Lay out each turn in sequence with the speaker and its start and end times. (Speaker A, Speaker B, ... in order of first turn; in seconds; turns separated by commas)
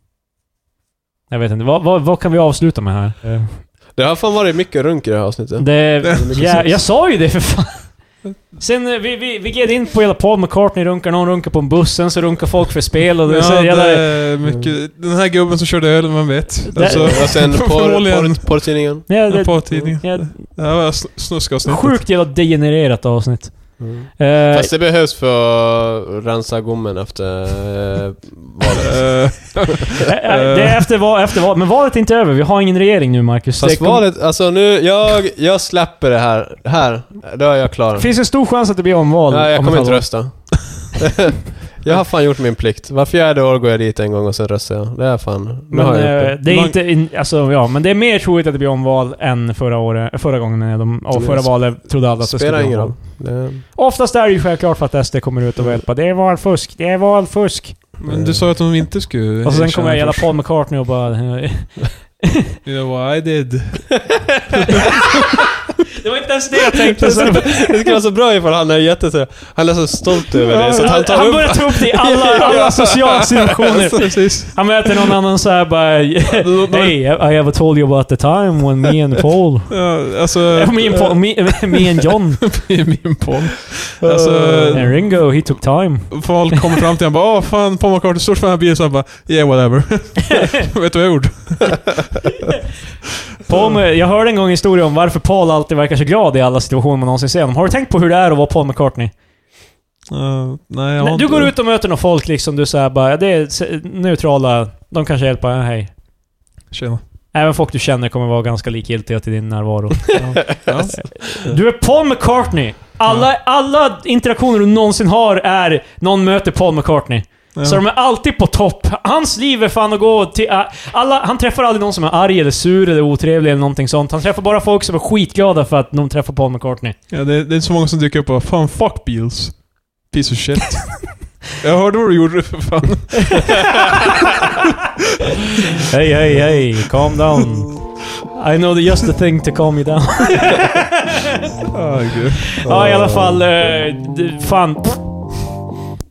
Speaker A: 1.3-3.7, Speaker B: 4.0-6.8, Speaker A: 5.6-14.3, Speaker C: 6.0-6.6, Speaker C: 13.3-22.0, Speaker B: 14.4-14.7, Speaker A: 16.7-17.5, Speaker B: 16.8-19.1, Speaker A: 19.1-21.0, Speaker A: 21.6-24.7, Speaker B: 23.8-29.6, Speaker C: 28.9-30.9, Speaker A: 30.1-34.1, Speaker B: 33.6-38.3, Speaker A: 38.0-40.5, Speaker B: 39.3-46.4, Speaker A: 45.7-58.0, Speaker C: 46.5-46.8, Speaker B: 51.1-53.6, Speaker C: 58.0-60.3, Speaker B: 58.0-58.5, Speaker A: 59.5-62.5, Speaker C: 62.6-64.3, Speaker A: 66.0-68.0, Speaker B: 67.0-72.8, Speaker C: 67.0-67.3, Speaker C: 70.4-75.2, Speaker A: 70.8-82.6, Speaker C: 76.3-77.0, Speaker C: 79.7-81.9, Speaker C: 82.4-92.2, Speaker B: 84.0-85.0, Speaker A: 84.7-86.8, Speaker A: 93.5-99.1, Speaker C: 93.5-93.8, Speaker C: 100.1-101.5, Speaker A: 101.0-105.9, Speaker C: 106.7-107.0, Speaker A: 107.3-127.0, Speaker C: 110.2-111.5, Speaker C: 117.6-117.8, Speaker C: 127.1-134.1, Speaker A: 135.9-141.4, Speaker C: 141.7-142.5, Speaker A: 142.6-145.0, Speaker B: 142.6-143.4